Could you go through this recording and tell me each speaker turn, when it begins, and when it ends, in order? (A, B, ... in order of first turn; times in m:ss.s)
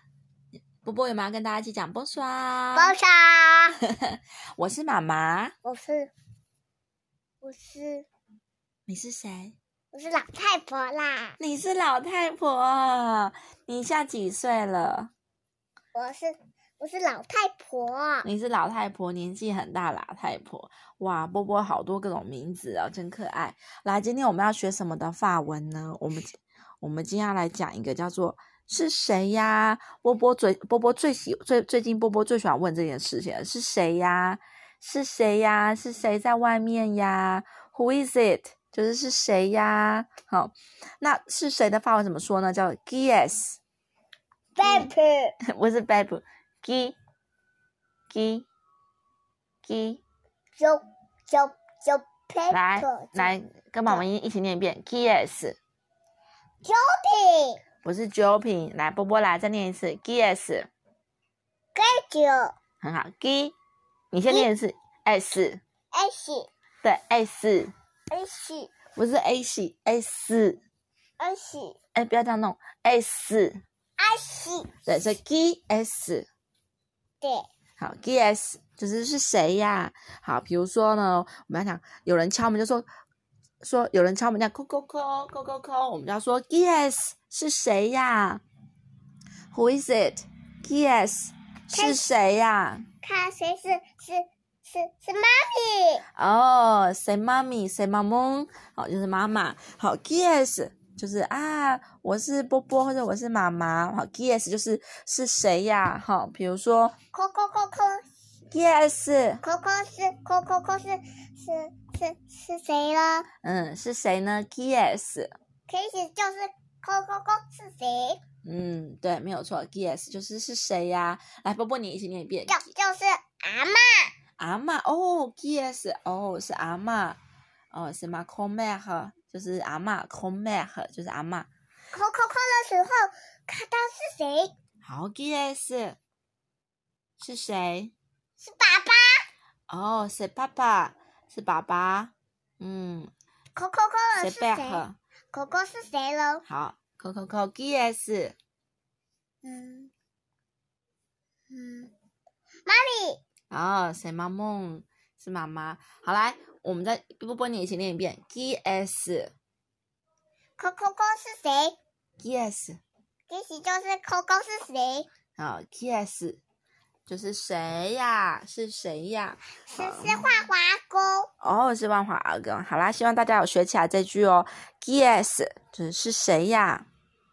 0:00.8-0:02.9 A
0:02.8-0:03.8 B
0:04.0-0:05.5 A
0:05.6-0:06.1 B
0:07.4-0:08.1 B
0:08.9-0:09.6 A
0:09.9-0:11.4 B
0:11.4-0:15.1 A
0:15.9-0:18.3 B
0:18.2-0:43.6 A
0:44.6-0:45.3 B
0:45.5-0:47.0 A
0:48.1-0:48.5 A
0:49.6-0:50.0 A
0:50.6-0:53.4 B
0:52.5-0:55.6 A
0:56.6-0:57.6 B
0:57.8-1:00.7 A
1:01.8-1:02.5 B
1:02.8-1:03.5 A
1:04.1-1:05.6 A
1:05.9-1:06.5 B
1:06.8-1:07.7 A
1:08.1-1:08.7 B
1:09.0-1:10.6 A
1:11.2-1:11.8 B
1:12.0-1:13.6 A
1:14.0-1:14.7 B
1:14.9-1:16.3 A
1:17.2-1:17.5 B
1:17.8-1:22.9 A
1:23.6-1:28.4 A
1:29.5-1:32.9 A
1:31.7-1:32.0 B
1:33.0-1:36.0 B
1:36.2-1:47.0 A
1:47.1-1:48.0 B
1:48.5-1:49.4 A
1:49.4-1:53.3 B
1:53.4-1:55.3 A
1:55.7-1:58.2 B
1:58.4-2:02.6 A
2:02.5-2:04.1 B
2:04.4-2:07.2 A
2:07.7-2:11.5 A
2:11.9-2:14.5 B
2:14.8-2:16.0 A
2:17.2-2:17.9 A
2:18.4-2:19.2 B
2:19.7-2:23.1 A
2:23.6-2:26.4 B
2:24.2-2:25.0 A
2:26.5-2:28.4 A
2:29.4-2:29.9 B
2:31.5-2:31.9 B
2:32.6-2:33.2 B
2:33.5-2:39.3 A
2:40.6-2:41.8 B
2:42.2-2:42.8 A
2:43.3-2:45.1 B
2:45.4-2:46.4 A
2:47.1-2:50.3 A
2:49.7-2:51.3 B
2:51.4-2:56.9 A